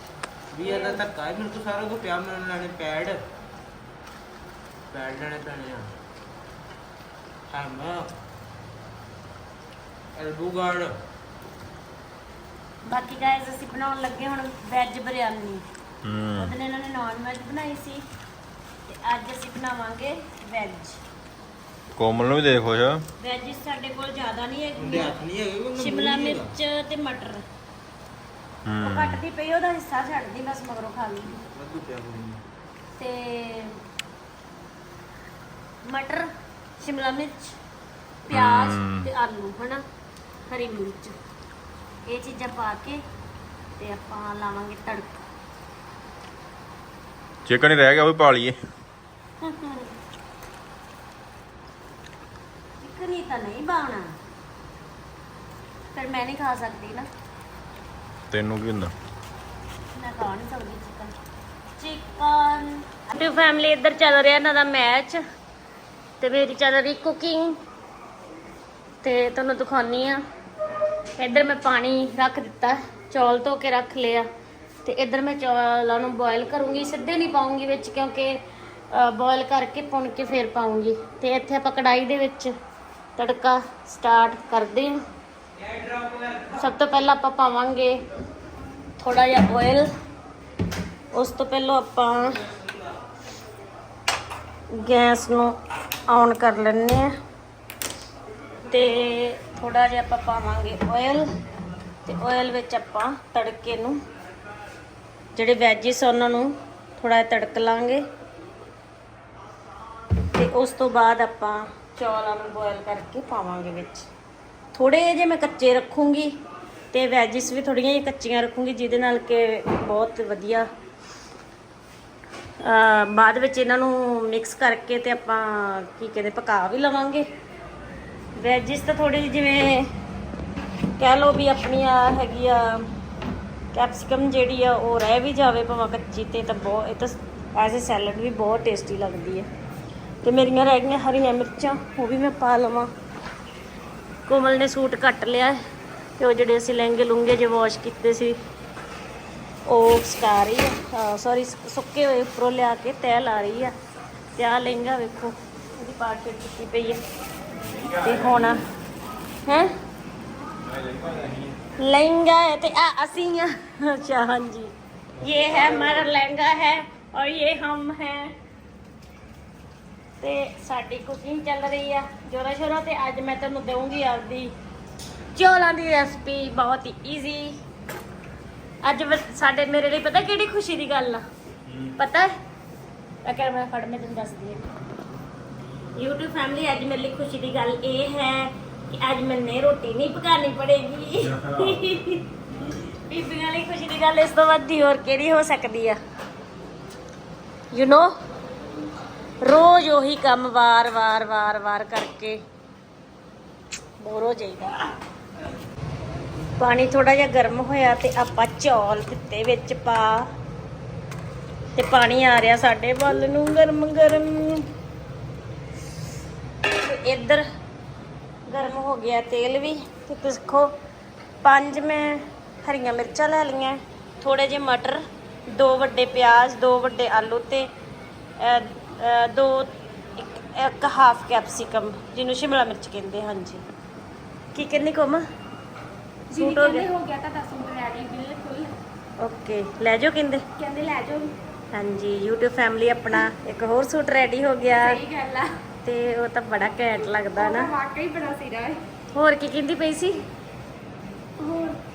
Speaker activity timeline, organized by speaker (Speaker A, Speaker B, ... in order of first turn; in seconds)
Speaker A: 0.5-3.2, 4.9-5.9, 7.5-8.1, 10.2-11.0, 24.8-26.5, 31.5-32.4, 85.6-86.5
Speaker B: 0.6-1.0, 12.9-15.6, 16.4-18.0, 18.9-21.0, 23.2-25.1, 25.8-27.4, 28.8-31.4, 33.0-33.8, 35.9-37.6, 38.3-39.9, 40.5-41.2, 42.1-43.0, 43.8-45.2, 49.4-49.9, 52.8-54.1, 56.0-57.1, 60.0-61.1, 61.8-65.2, 66.2-67.6, 69.0-70.2, 71.2-74.3, 74.8-78.4, 78.9-82.5, 83.2-85.0, 86.5-88.0, 89.0-89.9, 91.1-92.4, 94.7-95.5, 96.1-97.1, 98.7-101.2, 102.1-104.0, 105.4-108.0, 110.3-114.1, 114.7-116.4, 116.9-120.7, 122.6-127.3, 128.4-129.9, 131.0-132.9, 133.7-139.5, 140.2-142.9, 144.3-145.6, 146.2-148.4, 149.7-153.7, 154.4-157.0, 158.0-158.6, 159.5-159.7, 161.8-168.3, 170.2-174.5, 175.3-177.6, 178.8-181.2, 182.0-182.3, 183.2-184.6, 186.0-196.0, 197.7-198.1, 199.4-202.4, 204.0-204.8, 206.6-210.3, 211.8-214.7, 216.7-217.4, 218.5-220.7, 221.4-227.7, 228.4-233.6, 234.6-235.2, 236.3-236.9, 239.2-240.4, 241.7-245.0, 245.8-247.7, 249.2-250.2
Speaker C: 16.0-16.5, 22.0-23.1, 28.7-29.2, 38.3-39.1, 47.5-48.6, 58.3-58.9, 157.6-158.6, 160.6-161.6, 165.2-166.0, 181.7-182.0, 191.3-191.8
Speaker D: 236.3-238.7, 240.6-241.3, 244.7-245.5, 247.4-248.8, 251.4-251.8